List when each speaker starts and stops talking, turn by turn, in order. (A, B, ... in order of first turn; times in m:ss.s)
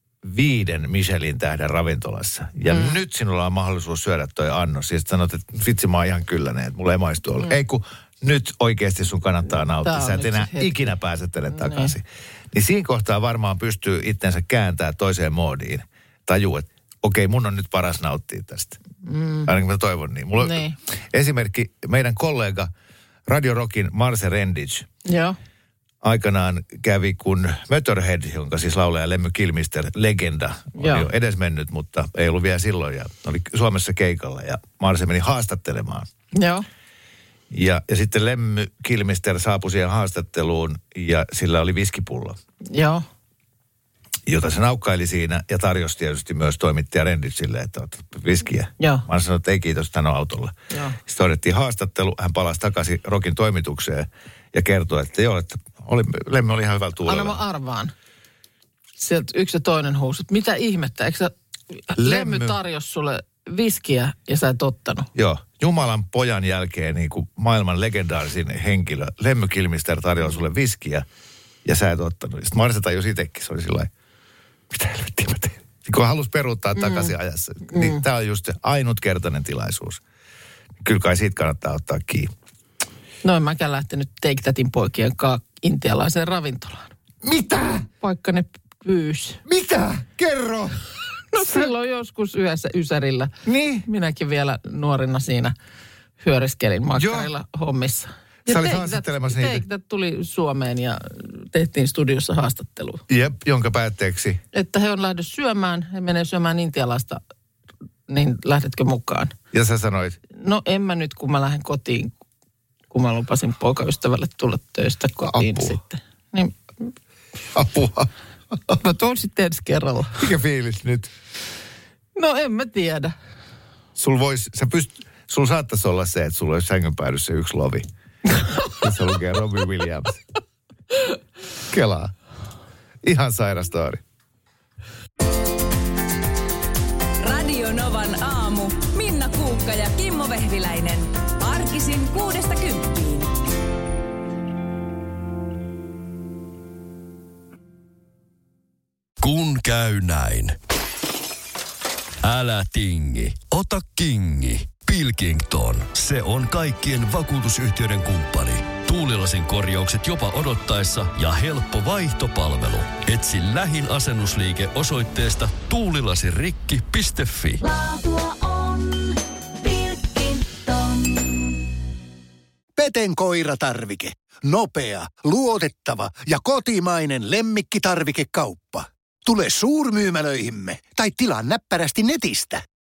0:00.2-0:18.8 A
0:02.7-0:03.0 B
0:09.8-0:10.9 B
0:11.5-0:11.9 B
0:19.0-0:19.5 B
0:19.4-0:22.7 A
0:20.4-0:20.8 B
0:23.3-0:24.9 A
0:25.0-0:25.4 B
0:26.0-0:36.1 A
0:30.7-0:31.1 B
0:36.3-0:36.6 B
0:37.5-0:42.4 A
0:42.7-0:43.0 B
0:44.3-0:57.4 A
0:48.8-0:49.0 B
0:50.7-0:51.0 B
0:57.0-0:57.9 B
0:59.0-1:05.1 B
1:02.0-1:02.6 A
1:05.1-1:11.0 A
1:11.6-1:13.9 A
1:14.7-1:20.0 A
1:16.8-1:17.1 B
1:17.6-1:18.0 B
1:20.8-1:22.3 A
1:23.2-1:26.9 B
1:27.2-1:27.9 A
1:28.0-1:29.4 B
1:29.4-1:30.8 A
1:31.3-1:33.3 B
1:31.4-1:31.7 A
1:33.4-1:33.8 A
1:33.8-1:35.5 B
1:36.2-1:43.0 B
1:36.9-1:37.3 A
1:38.4-1:39.6 A
1:43.1-1:44.4 A
1:44.5-1:47.2 B
1:48.1-1:49.3 B
1:49.5-1:50.2 A
1:50.3-1:52.1 B
1:52.9-1:56.9 B
1:55.2-1:55.8 A
1:57.5-1:58.1 A
1:58.7-2:00.2 B
2:00.2-2:01.1 A
2:02.2-2:03.1 B
2:04.0-2:07.8 A
2:08.7-2:10.2 A
2:11.7-2:12.1 A
2:13.0-2:14.0 A
2:17.2-2:23.3 C
2:29.2-2:30.6 D
2:32.2-2:47.6 D
2:47.6-2:51.6 E
2:52.8-3:02.6 F